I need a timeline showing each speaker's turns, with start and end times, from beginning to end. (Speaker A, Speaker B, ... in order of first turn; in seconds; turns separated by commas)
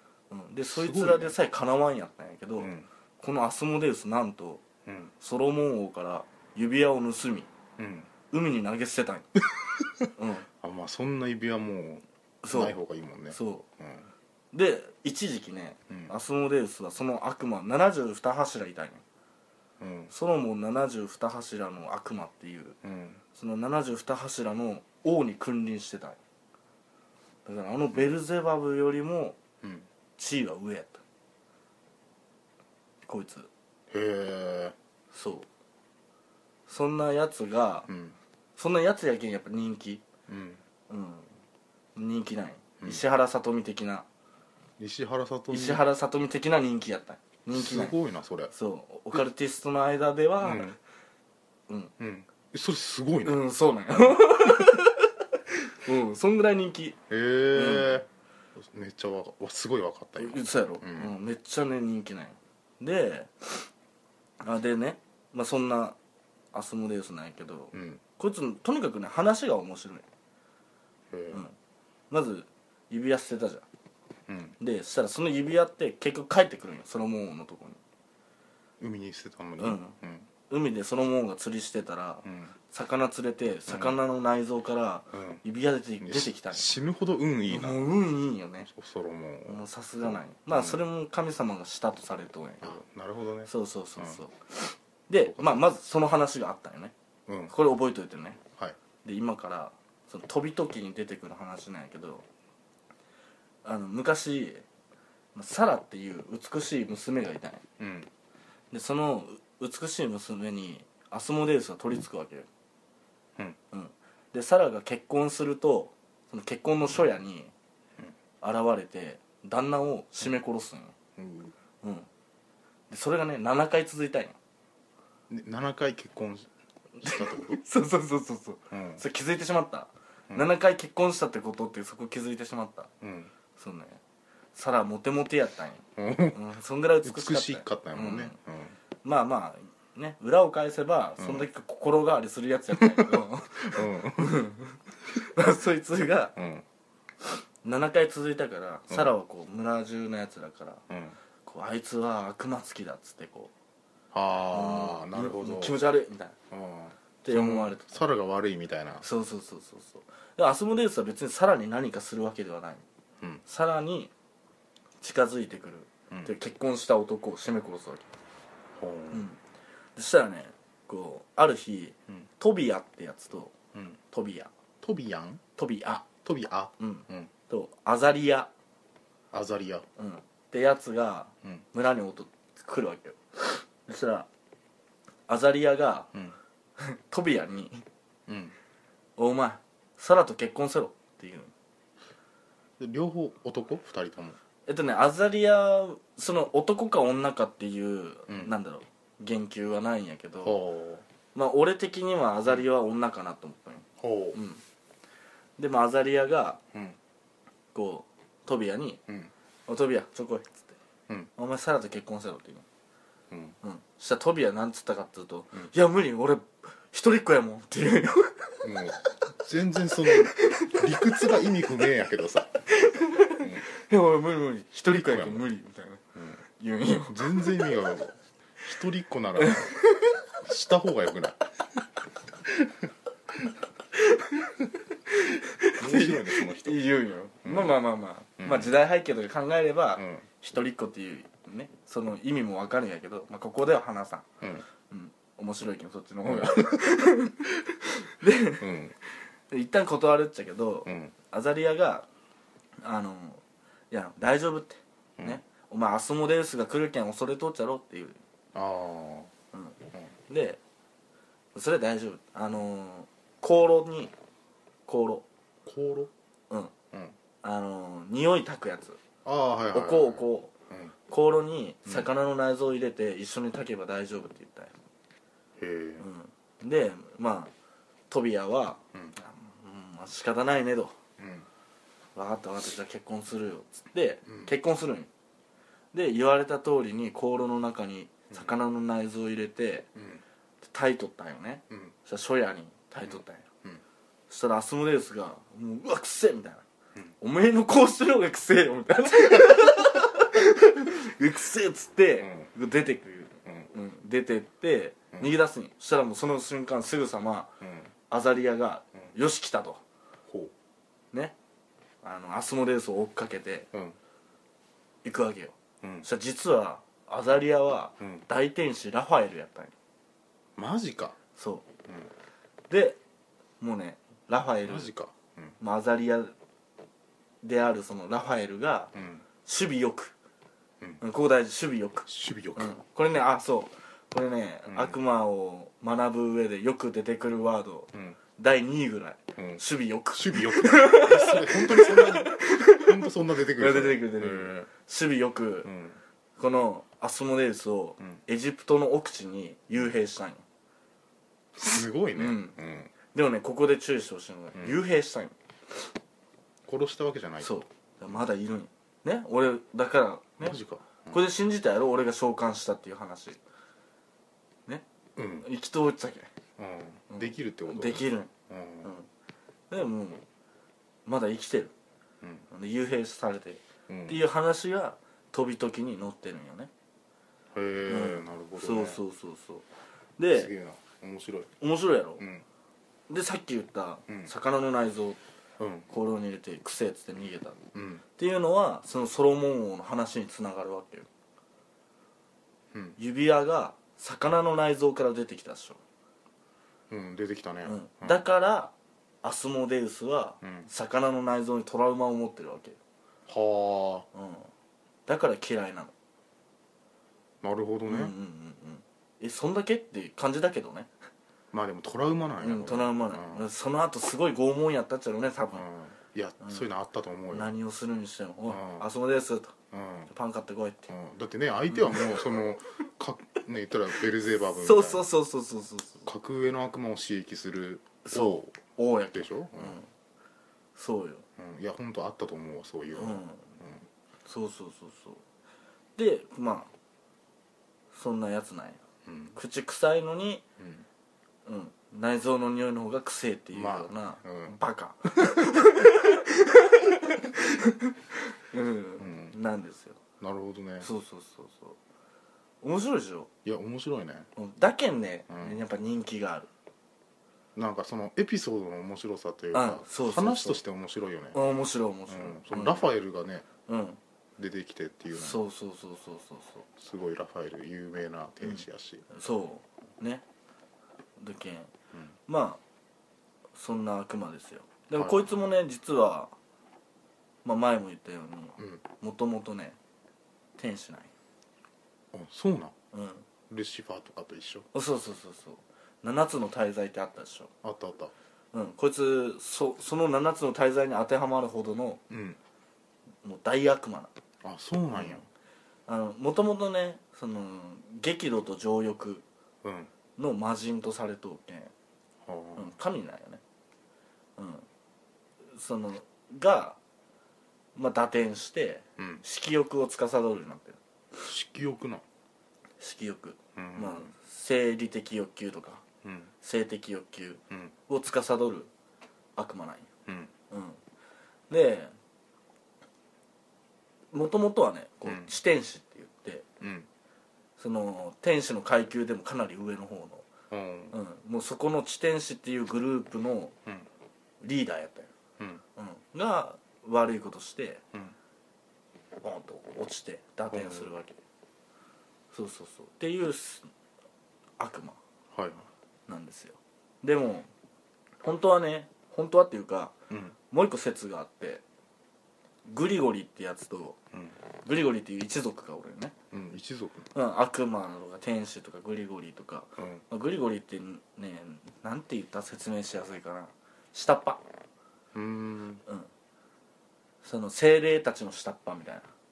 Speaker A: 0.3-4.7, Speaker B: 0.7-1.4, Speaker B: 2.6-2.9, Speaker B: 4.9-5.1, Speaker A: 5.2-7.5, Speaker B: 7.8-8.1, Speaker A: 8.3-9.3, Speaker A: 10.2-10.5, Speaker B: 10.6-14.1, Speaker A: 12.4-12.8, Speaker A: 13.3-13.7, Speaker A: 14.5-19.0, Speaker B: 19.8-20.1, Speaker A: 20.1-22.8, Speaker B: 22.8-23.2, Speaker A: 23.4-26.2, Speaker A: 27.5-29.4, Speaker B: 29.6-29.9, Speaker A: 30.2-31.0, Speaker A: 33.1-33.5, Speaker B: 33.9-34.8, Speaker A: 35.1-35.5, Speaker A: 36.7-37.9, Speaker B: 37.9-38.2, Speaker A: 38.6-40.0, Speaker B: 40.3-40.6, Speaker A: 40.9-41.3, Speaker A: 42.0-44.1, Speaker B: 44.8-45.8, Speaker A: 45.5-48.0, Speaker B: 47.5-48.5, Speaker A: 48.5-50.8, Speaker B: 50.4-50.8, Speaker B: 52.0-53.4, Speaker A: 53.2-57.0, Speaker B: 57.1-61.1, Speaker A: 57.5-58.0, Speaker A: 60.2-63.7, Speaker A: 64.4-66.0, Speaker A: 66.5-70.1, Speaker B: 67.7-68.0, Speaker B: 71.1-71.5, Speaker A: 72.1-73.7, Speaker B: 74.3-74.6, Speaker A: 74.6-77.8, Speaker B: 78.8-80.3, Speaker A: 79.6-80.0, Speaker A: 80.5-86.7, Speaker B: 82.2-82.5, Speaker B: 83.7-84.0, Speaker B: 85.1-85.4, Speaker B: 86.0-87.8, Speaker A: 87.5-88.7, Speaker B: 88.7-90.8, Speaker A: 89.5-92.8, Speaker B: 92.6-94.2, Speaker A: 93.5-96.9, Speaker B: 95.2-95.6, Speaker B: 97.3-97.5, Speaker A: 97.5-98.4, Speaker A: 99.0-102.3, Speaker A: 103.6-104.6, Speaker A: 105.3-107.6, Speaker B: 107.8-108.1, Speaker A: 108.7-112.5, Speaker A: 113.7-117.5, Speaker A: 118.4-121.0, Speaker B: 121.2-121.5, Speaker A: 121.8-122.1, Speaker A: 122.9-124.4, Speaker B: 125.3-126.5, Speaker A: 127.0-132.9, Speaker B: 127.0-127.6, Speaker B: 128.7-129.0, Speaker B: 133.0-133.3, Speaker A: 133.6-134.0, Speaker A: 134.5-138.4, Speaker B: 136.0-136.4, Speaker B: 137.0-138.8, Speaker A: 139.0-146.4, Speaker B: 141.2-141.5, Speaker B: 142.8-144.4, Speaker B: 146.4-146.7, Speaker A: 147.6-150.8, Speaker B: 150.9-151.2, Speaker A: 151.4-153.5, Speaker B: 154.1-155.8, Speaker A: 154.5-156.4, Speaker B: 156.5-159.1, Speaker A: 157.2-158.0, Speaker A: 159.0-162.8, Speaker A: 163.4-164.1, Speaker A: 165.0-168.1, Speaker B: 168.8-169.2, Speaker A: 169.1-169.4, Speaker A: 170.0-173.6, Speaker A: 174.1-174.5, Speaker B: 174.8-175.4, Speaker A: 175.6-176.1, Speaker B: 176.2-177.3, Speaker A: 176.8-178.5, Speaker B: 179.3-179.9, Speaker A: 180.0-184.3, Speaker A: 185.3-186.1, Speaker A: 186.8-187.8, Speaker B: 188.3-188.6, Speaker A: 189.2-191.5, Speaker B: 192.8-194.4, Speaker A: 194.7-200.6, Speaker B: 198.3-198.5, Speaker B: 200.4-201.1, Speaker A: 201.3-204.6, Speaker B: 204.0-204.4, Speaker A: 205.6-206.6, Speaker A: 207.7-209.0, Speaker A: 209.7-210.8, Speaker A: 211.4-212.7, Speaker B: 213.3-213.6, Speaker A: 213.6-218.7, Speaker B: 218.6-222.5, Speaker A: 220.1-221.8, Speaker A: 222.7-227.8, Speaker B: 225.0-225.4, Speaker B: 226.2-226.4, Speaker B: 227.1-229.8, Speaker A: 229.4-230.2, Speaker B: 230.4-231.4, Speaker A: 233.9-234.6, Speaker A: 235.1-244.3, Speaker B: 235.8-236.8, Speaker B: 237.4-237.8, Speaker B: 238.4-238.7, Speaker B: 240.0-240.2, Speaker A: 244.9-248.7, Speaker B: 246.2-247.1, Speaker B: 248.6-248.9, Speaker A: 249.5-252.1, Speaker B: 250.9-251.1, Speaker A: 252.8-258.2, Speaker B: 258.5-259.3, Speaker A: 259.5-260.6, Speaker A: 261.6-264.1, Speaker A: 264.9-265.3, Speaker B: 265.7-266.1, Speaker A: 267.4-269.0, Speaker B: 269.2-270.9, Speaker A: 269.7-270.5, Speaker A: 271.1-274.8, Speaker B: 275.6-276.1, Speaker A: 276.0-277.5, Speaker A: 278.1-281.0, Speaker B: 281.2-281.5, Speaker A: 282.2-285.1, Speaker B: 284.3-284.5, Speaker A: 285.9-289.9, Speaker B: 289.9-290.2, Speaker A: 290.6-293.4, Speaker B: 293.1-293.8, Speaker A: 294.3-296.6, Speaker A: 297.2-307.5, Speaker B: 302.2-302.5, Speaker B: 307.6-307.9, Speaker A: 308.1-309.8, Speaker A: 312.0-313.7, Speaker A: 315.0-319.7, Speaker B: 315.8-316.1, Speaker B: 320.6-321.2, Speaker A: 321.4-321.6, Speaker A: 322.7-323.0, Speaker A: 323.6-324.9, Speaker B: 324.7-325.6, Speaker A: 325.6-326.4, Speaker A: 327.4-328.9, Speaker B: 328.9-329.2, Speaker A: 329.4-330.1, Speaker A: 331.0-345.7, Speaker B: 332.1-332.7, Speaker B: 334.7-335.0, Speaker B: 340.1-344.7, Speaker B: 345.6-346.0, Speaker A: 346.4-350.4, Speaker B: 351.6-352.9, Speaker A: 352.1-352.6, Speaker A: 353.1-355.4, Speaker B: 354.6-354.8, Speaker B: 356.7-357.5, Speaker A: 357.4-360.6, Speaker B: 360.4-361.2, Speaker A: 361.1-363.4, Speaker B: 365.2-365.5, Speaker A: 365.4-366.3, Speaker B: 366.6-368.9, Speaker A: 367.1-369.1, Speaker A: 369.7-370.2, Speaker A: 371.1-371.7, Speaker A: 372.5-376.7, Speaker B: 373.9-374.2, Speaker B: 377.5-379.0, Speaker A: 377.9-379.6, Speaker A: 380.2-380.5, Speaker B: 380.3-381.5, Speaker A: 381.6-382.2, Speaker B: 382.2-382.4, Speaker A: 383.1-385.2, Speaker B: 385.6-385.9, Speaker A: 385.9-387.6, Speaker B: 387.7-388.0, Speaker A: 388.2-391.1, Speaker A: 393.0-395.8, Speaker B: 396.9-398.2, Speaker A: 397.6-402.8, Speaker B: 400.4-400.7, Speaker B: 403.3-404.1, Speaker A: 404.1-404.5, Speaker A: 405.1-405.9, Speaker B: 407.4-408.1, Speaker A: 407.9-410.9, Speaker B: 411.5-413.4, Speaker A: 412.4-415.6, Speaker B: 415.5-417.5, Speaker A: 416.4-416.7, Speaker A: 417.3-419.6, Speaker B: 418.5-418.9, Speaker B: 419.7-420.1, Speaker A: 420.1-420.9, Speaker B: 420.9-425.1, Speaker A: 421.7-422.3, Speaker A: 424.6-426.1, Speaker B: 426.1-428.6, Speaker A: 428.1-429.9, Speaker B: 429.1-429.8, Speaker A: 430.8-431.2, Speaker B: 431.4-433.9, Speaker A: 432.9-433.5, Speaker A: 434.2-435.2, Speaker A: 436.0-436.7, Speaker A: 437.9-438.8, Speaker B: 439.1-439.4, Speaker A: 439.3-440.4, Speaker B: 440.6-440.9, Speaker A: 441.4-447.9, Speaker B: 443.5-444.6, Speaker B: 445.3-445.6, Speaker A: 448.5-450.0, Speaker B: 449.0-449.4, Speaker B: 450.2-450.9, Speaker A: 450.8-451.8, Speaker A: 452.6-453.3, Speaker B: 453.4-454.3, Speaker A: 454.4-456.5, Speaker B: 455.3-455.6, Speaker B: 457.6-461.4, Speaker A: 459.5-460.6, Speaker A: 461.3-462.9, Speaker B: 462.1-463.5, Speaker A: 463.7-464.0, Speaker B: 464.4-465.4, Speaker A: 465.1-466.7, Speaker B: 466.8-469.1, Speaker A: 468.4-470.2, Speaker A: 471.2-471.7, Speaker A: 472.3-472.6, Speaker A: 473.5-476.3, Speaker B: 474.9-475.3, Speaker A: 477.4-479.8, Speaker A: 480.6-481.1, Speaker B: 482.1-482.8, Speaker A: 482.9-483.3, Speaker B: 483.5-484.7, Speaker A: 484.7-487.5, Speaker B: 487.6-488.1, Speaker A: 488.5-492.0, Speaker B: 492.1-492.4, Speaker A: 493.2-494.1, Speaker B: 494.4-495.3, Speaker A: 494.9-495.2, Speaker A: 495.9-499.2, Speaker B: 499.6-499.9, Speaker A: 500.2-501.7, Speaker B: 502.2-502.7, Speaker A: 502.6-503.4, Speaker A: 504.4-504.7, Speaker A: 505.5-506.8, Speaker A: 507.8-510.8, Speaker B: 509.0-509.2, Speaker B: 511.2-512.0, Speaker A: 512.8-515.9, Speaker B: 513.6-514.1, Speaker B: 516.0-516.3, Speaker A: 516.4-518.7, Speaker A: 519.4-519.9, Speaker B: 520.1-520.3, Speaker A: 520.5-520.8, Speaker A: 521.5-521.9, Speaker A: 524.1-526.5, Speaker B: 525.1-525.3, Speaker B: 526.6-526.9, Speaker A: 527.6-530.3, Speaker B: 530.5-531.0, Speaker A: 530.9-533.5, Speaker A: 534.4-535.1, Speaker A: 535.8-537.8, Speaker A: 539.2-541.2, Speaker B: 540.5-540.9, Speaker A: 542.3-543.7, Speaker A: 544.6-545.0, Speaker B: 545.3-545.7, Speaker A: 546.1-547.5, Speaker A: 548.2-550.0, Speaker B: 550.1-550.4, Speaker A: 550.5-551.6, Speaker A: 552.7-554.0, Speaker A: 554.6-556.2, Speaker B: 556.3-557.1, Speaker A: 557.1-564.4, Speaker B: 559.8-560.0, Speaker B: 565.1-565.8, Speaker A: 567.2-569.1